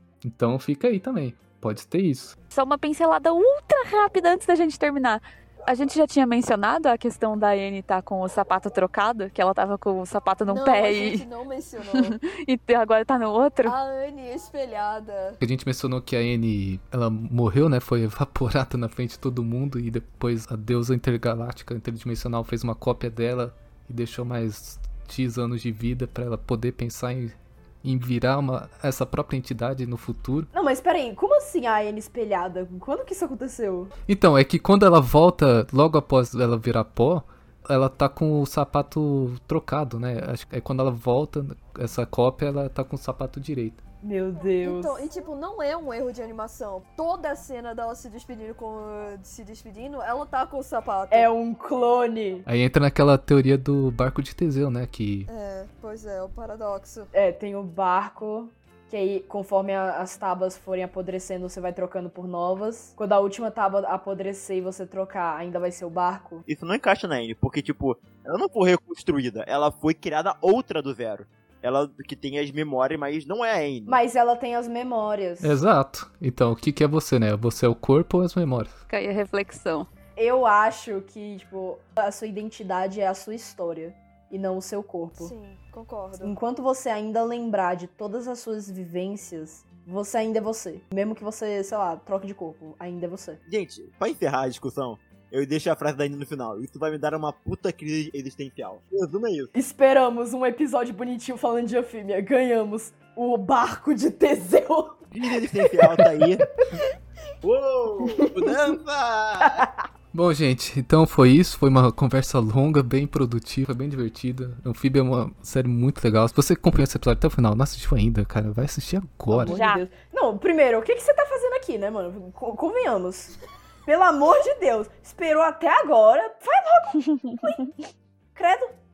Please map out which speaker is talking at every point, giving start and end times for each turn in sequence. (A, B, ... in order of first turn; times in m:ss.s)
0:00.2-0:02.3 A
0:02.5-0:11.2 B
0:10.5-0:12.2 C
0:11.9-0:13.7 B
0:13.6-0:15.4 C
0:15.4-0:30.5 A
0:30.5-0:33.9 D
0:34.1-0:43.8 A
0:44.0-0:45.0 D
0:44.6-0:51.3 C
0:51.1-0:52.4 D
0:52.4-0:55.3 A
0:55.3-0:57.1 C
0:57.1-1:06.4 D
1:06.5-1:14.0 E
1:13.8-1:15.6 D
1:15.4-1:18.8 A
1:18.9-1:19.9 B
1:20.2-1:25.3 D
1:25.2-1:26.4 C
1:26.2-1:33.4 D
1:33.5-1:39.5 E
1:39.5-1:45.8 D
1:45.1-1:46.4 E
1:47.4-1:49.6 E
1:50.1-1:59.6 A
1:59.3-2:03.3 D
1:59.4-1:59.8 B
2:03.8-2:07.7 D
2:08.3-2:08.7 D